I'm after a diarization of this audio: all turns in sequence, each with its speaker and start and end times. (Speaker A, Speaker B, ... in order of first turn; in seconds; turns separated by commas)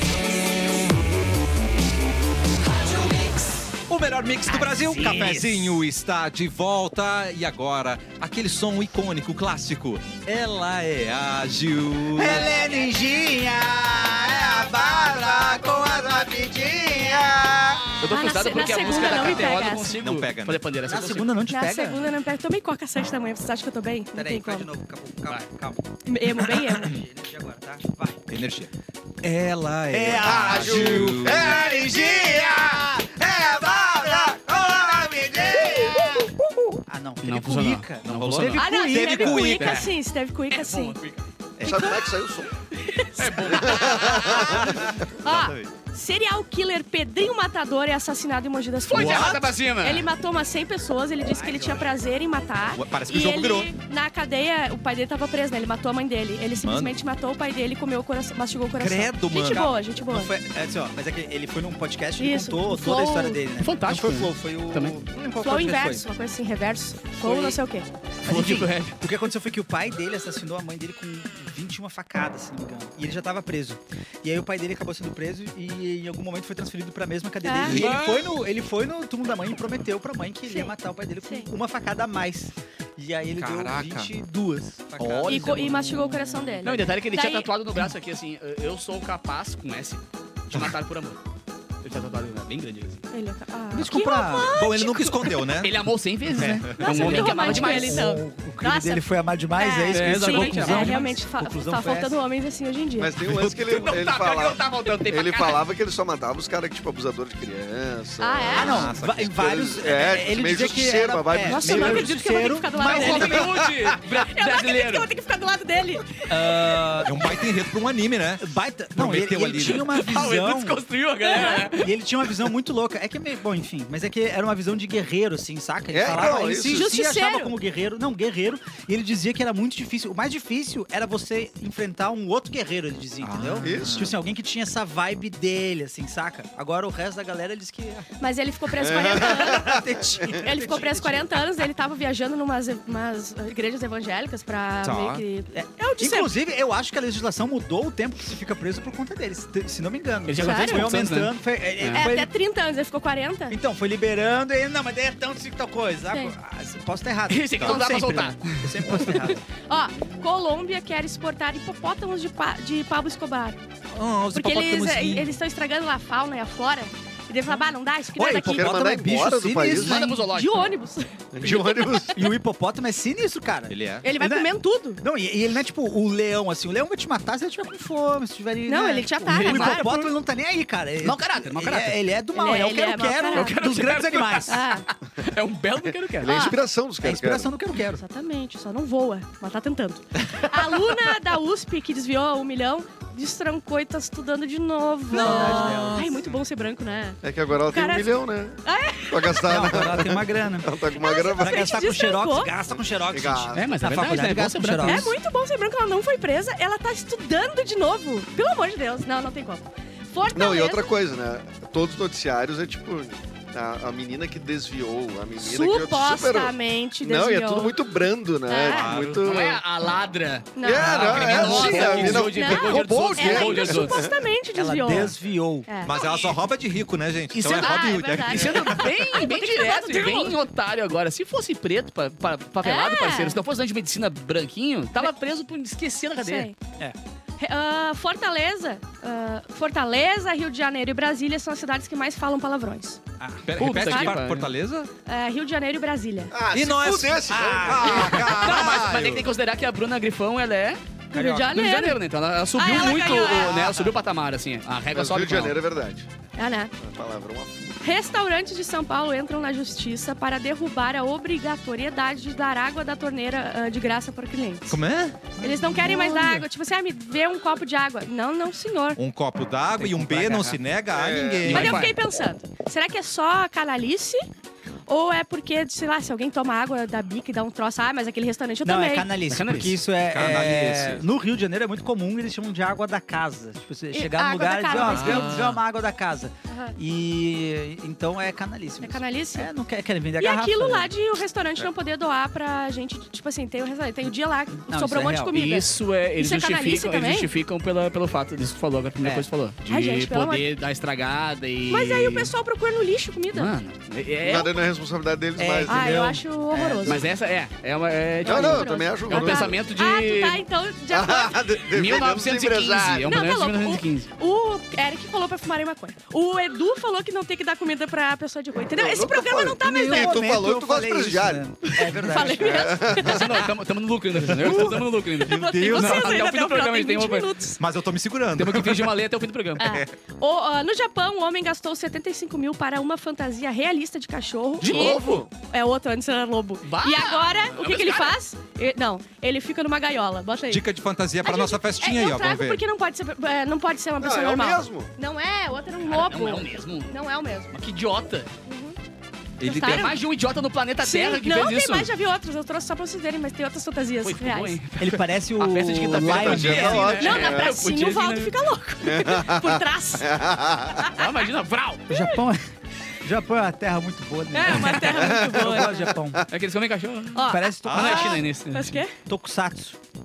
Speaker A: 2.9-3.7, Speaker B: 3.9-10.2, Speaker A: 4.5-5.8, Speaker A: 10.3-11.1, Speaker B: 10.9-12.4, Speaker A: 12.2-18.0, Speaker C: 18.0-21.3, Speaker D: 18.1-20.0, Speaker B: 19.9-20.6, Speaker A: 20.9-22.1, Speaker D: 21.5-24.7, Speaker A: 24.1-25.9, Speaker D: 26.1-27.0, Speaker A: 26.8-28.4, Speaker B: 28.3-28.7, Speaker B: 29.2-31.6, Speaker A: 29.9-39.6, Speaker E: 30.1-34.4, Speaker E: 35.5-35.9, Speaker C: 37.2-38.6, Speaker B: 38.0-39.9, Speaker D: 38.6-41.0, Speaker C: 39.5-39.9, Speaker C: 40.5-41.2, Speaker E: 41.6-42.5, Speaker D: 41.7-42.0, Speaker D: 42.8-44.0, Speaker C: 43.2-44.8, Speaker E: 43.5-45.0, Speaker B: 44.8-45.7, Speaker D: 45.2-60.3, Speaker C: 48.9-50.1, Speaker B: 48.9-49.4, Speaker A: 51.4-51.9, Speaker B: 52.7-53.7, Speaker B: 56.6-57.0, Speaker B: 58.8-59.8, Speaker A: 60.0-66.1, Speaker D: 62.2-63.4, Speaker C: 63.6-65.0, Speaker D: 65.4-67.9, Speaker A: 67.2-67.5, Speaker C: 68.2-69.0, Speaker A: 68.2-86.6, Speaker D: 77.4-77.9, Speaker C: 77.7-78.3, Speaker B: 83.4-84.1, Speaker B: 85.0-85.2, Speaker C: 85.0-85.8, Speaker D: 85.2-87.5, Speaker C: 86.6-91.2, Speaker C: 91.8-93.0, Speaker D: 93.1-95.5, Speaker A: 93.7-94.5, Speaker B: 94.4-95.8, Speaker C: 95.6-98.1, Speaker B: 96.4-96.9, Speaker A: 96.4-102.2, Speaker D: 96.8-103.2, Speaker C: 99.9-101.0, Speaker E: 103.0-112.1, Speaker B: 103.2-103.9, Speaker C: 103.7-105.6, Speaker D: 108.2-108.8, Speaker A: 108.5-113.8, Speaker B: 108.5-109.3, Speaker D: 111.5-113.5, Speaker C: 112.8-115.1, Speaker D: 114.1-116.6, Speaker A: 116.3-117.3, Speaker B: 117.0-119.9, Speaker A: 118.4-120.8, Speaker C: 119.6-121.9, Speaker D: 121.2-121.7, Speaker A: 121.7-138.1, Speaker E: 125.9-126.9, Speaker D: 126.2-127.5, Speaker B: 133.2-134.1, Speaker E: 133.6-134.1, Speaker D: 138.2-139.8, Speaker E: 138.8-140.3, Speaker A: 139.2-141.4, Speaker D: 140.3-146.3, Speaker B: 144.8-145.2, Speaker A: 145.5-152.3, Speaker C: 150.3-152.1, Speaker D: 150.4-150.9, Speaker D: 151.9-153.6, Speaker A: 153.5-159.4, Speaker C: 157.3-159.2, Speaker D: 159.6-163.6, Speaker B: 163.9-165.4, Speaker D: 164.3-168.7, Speaker A: 168.2-170.3, Speaker E: 168.3-170.0, Speaker C: 169.7-170.7, Speaker D: 170.2-171.1, Speaker E: 171.3-172.2, Speaker A: 172.1-174.5, Speaker B: 173.7-174.1, Speaker D: 174.0-175.0, Speaker A: 175.0-184.6, Speaker D: 178.7-180.0, Speaker C: 179.3-180.1, Speaker C: 181.0-182.0, Speaker D: 182.3-183.6, Speaker C: 183.3-186.4, Speaker D: 184.5-184.8, Speaker E: 186.2-187.5, Speaker D: 186.2-186.6, Speaker A: 187.0-188.0, Speaker D: 187.9-197.2, Speaker A: 195.1-196.1, Speaker B: 195.1-196.3, Speaker E: 197.2-201.8, Speaker D: 197.7-198.1, Speaker D: 198.6-199.4, Speaker A: 199.4-200.8, Speaker D: 200.9-202.5, Speaker A: 201.4-205.2, Speaker E: 202.7-203.8, Speaker C: 203.6-205.1, Speaker D: 204.8-210.9, Speaker E: 210.3-219.6, Speaker D: 215.4-217.8, Speaker D: 218.5-219.0, Speaker B: 218.6-219.5, Speaker C: 219.2-224.0, Speaker D: 220.6-225.2, Speaker E: 220.6-224.3, Speaker A: 224.5-225.7, Speaker D: 225.7-226.4, Speaker B: 225.8-228.9, Speaker C: 227.3-236.5, Speaker D: 227.5-230.4, Speaker D: 232.6-233.4, Speaker D: 236.2-236.6, Speaker D: 237.4-243.0, Speaker A: 243.2-243.5, Speaker B: 243.5-244.9, Speaker C: 243.6-244.5, Speaker D: 243.9-244.2, Speaker D: 245.1-246.3, Speaker E: 246.3-248.3, Speaker B: 246.5-249.3, Speaker A: 247.3-248.3, Speaker C: 247.8-250.8, Speaker A: 251.1-251.7, Speaker D: 251.1-252.0, Speaker C: 251.5-255.6, Speaker D: 252.5-253.8, Speaker E: 254.9-256.1, Speaker D: 256.4-256.7, Speaker E: 256.8-257.8, Speaker D: 257.8-264.8, Speaker B: 264.7-265.4, Speaker D: 265.4-269.0, Speaker A: 265.4-266.4, Speaker B: 269.0-271.9, Speaker C: 269.8-270.6, Speaker A: 270.1-270.4, Speaker E: 270.9-271.7, Speaker C: 271.4-271.9, Speaker D: 271.5-274.2, Speaker D: 274.9-279.1, Speaker A: 278.6-290.9, Speaker C: 279.3-279.8, Speaker B: 280.1-281.0, Speaker D: 283.9-285.4, Speaker B: 284.7-285.6, Speaker D: 288.8-289.5, Speaker D: 290.2-297.3, Speaker A: 294.7-295.4, Speaker C: 295.3-302.3, Speaker A: 299.0-299.3, Speaker D: 299.6-300.5, Speaker D: 301.7-303.5, Speaker C: 303.3-304.6, Speaker E: 304.2-306.0, Speaker A: 305.4-307.0, Speaker D: 305.7-307.0, Speaker C: 306.8-310.4, Speaker D: 308.2-311.4, Speaker E: 308.2-309.6, Speaker E: 310.9-313.1, Speaker C: 311.7-314.1, Speaker D: 313.1-320.2, Speaker E: 318.6-321.4, Speaker A: 319.6-322.8, Speaker D: 321.6-323.3, Speaker E: 322.2-323.3, Speaker C: 322.9-327.3, Speaker B: 324.4-326.2, Speaker D: 325.3-327.6, Speaker B: 327.6-329.0, Speaker C: 328.4-329.8, Speaker D: 329.6-340.6, Speaker B: 329.6-329.9, Speaker C: 334.6-335.2, Speaker E: 334.6-335.3, Speaker C: 336.6-338.2, Speaker B: 340.5-342.6, Speaker D: 341.2-347.5, Speaker E: 344.0-344.9, Speaker C: 345.8-346.9, Speaker C: 347.5-348.3, Speaker D: 348.5-348.8, Speaker B: 349.4-350.0, Speaker D: 349.4-349.9, Speaker C: 349.6-351.9, Speaker D: 350.8-354.6, Speaker C: 354.0-358.4, Speaker A: 354.8-357.1, Speaker E: 355.9-357.6, Speaker D: 357.0-360.1, Speaker E: 358.8-360.8, Speaker D: 360.8-361.1, Speaker C: 360.9-361.9, Speaker A: 361.9-362.4, Speaker A: 363.0-366.2, Speaker D: 364.3-365.9, Speaker E: 364.9-366.2, Speaker C: 366.3-368.8, Speaker D: 367.1-368.9, Speaker A: 367.3-368.2, Speaker B: 367.6-368.2, Speaker A: 369.1-369.8